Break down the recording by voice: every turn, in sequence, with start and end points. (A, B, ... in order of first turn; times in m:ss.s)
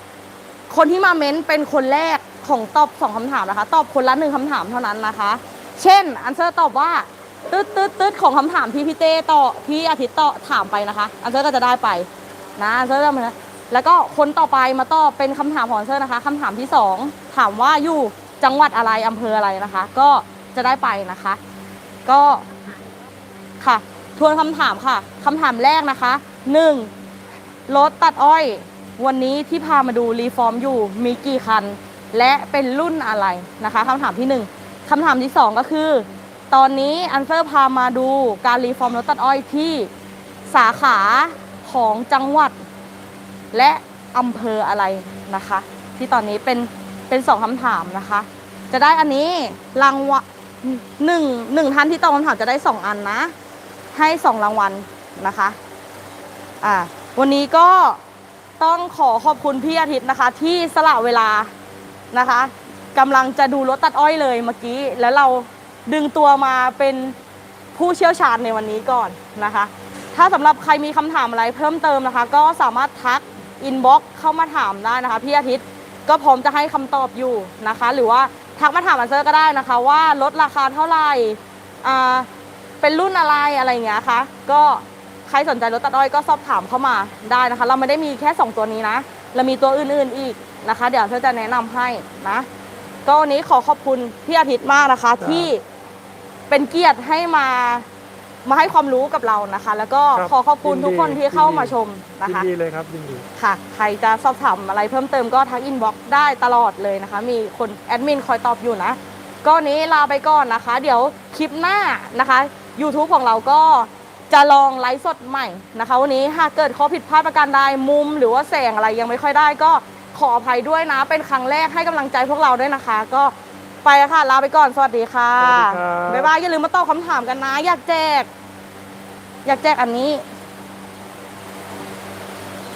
0:00.7-0:21.4 A
0:22.0-0:22.5 A
0:23.6-0:26.9 A
0:27.7-0:39.9 A
0:40.5-0:42.6 A
0:43.5-0:53.3 A
0:53.9-0:55.6 A
0:56.6-0:58.0 A
0:58.6-1:01.5 A
1:02.1-1:07.2 A
1:07.8-1:22.3 A
1:22.8-1:32.5 A
1:33.0-1:35.6 A
1:35.2-1:35.5 B
1:36.5-1:37.8 A
1:38.4-1:42.5 A
1:40.2-1:43.2 B
1:43.4-2:08.3 A
2:05.4-2:06.3 B
2:09.4-2:10.2 A